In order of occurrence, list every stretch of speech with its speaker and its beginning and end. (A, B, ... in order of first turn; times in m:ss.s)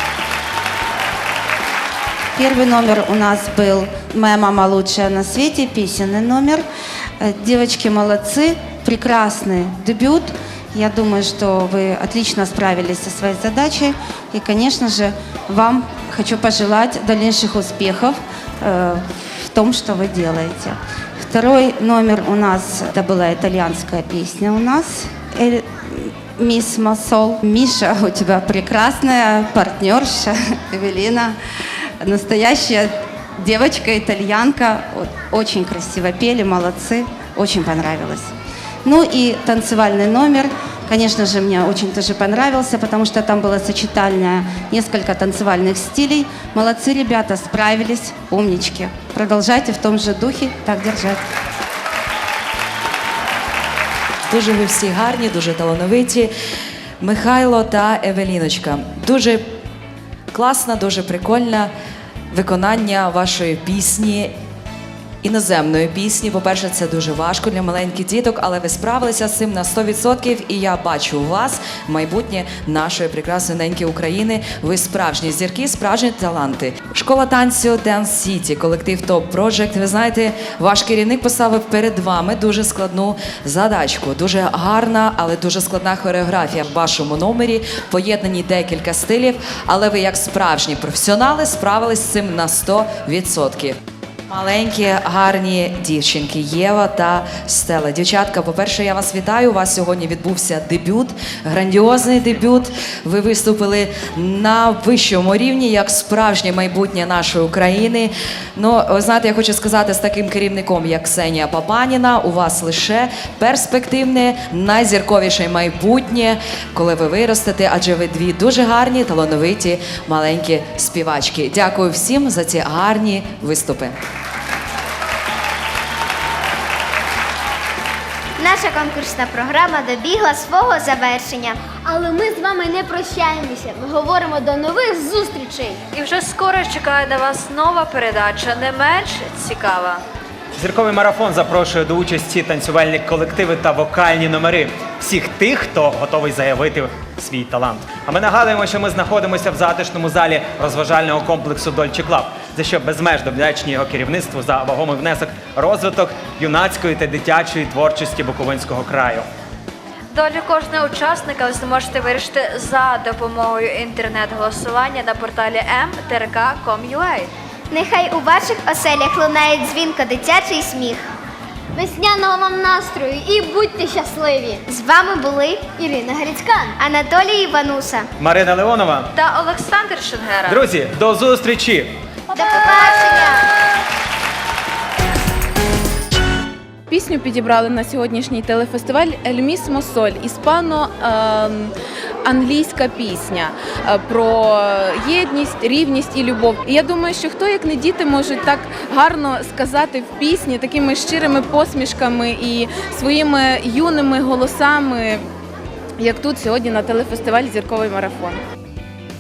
0:02.4-0:06.6 A
0:07.2-0:31.4 A
0:32.0-0:38.3 A
0:38.8-0:51.2 A
0:54.3-0:56.3 B
0:57.0-0:59.4 B
1:00.3-1:01.7 B
1:02.3-1:04.3 B
1:05.2-1:33.8 B
1:34.3-2:03.9 B
2:08.4-2:11.6 C
2:11.8-2:15.8 D
2:15.9-2:20.0 E
2:20.6-2:39.3 F
2:40.1-2:47.3 E
2:47.7-2:51.1 C
2:51.7-2:54.6 D
2:54.7-2:55.7 C
2:55.8-2:56.8 D
2:56.8-2:58.1 C
2:58.2-2:59.1 F
2:59.1-3:00.6 E
3:00.5-3:01.9 F
3:02.3-3:03.3 D
3:02.3-3:03.5 C
3:06.9-3:11.7 G
3:12.2-3:25.2 G
3:26.0-3:28.4 G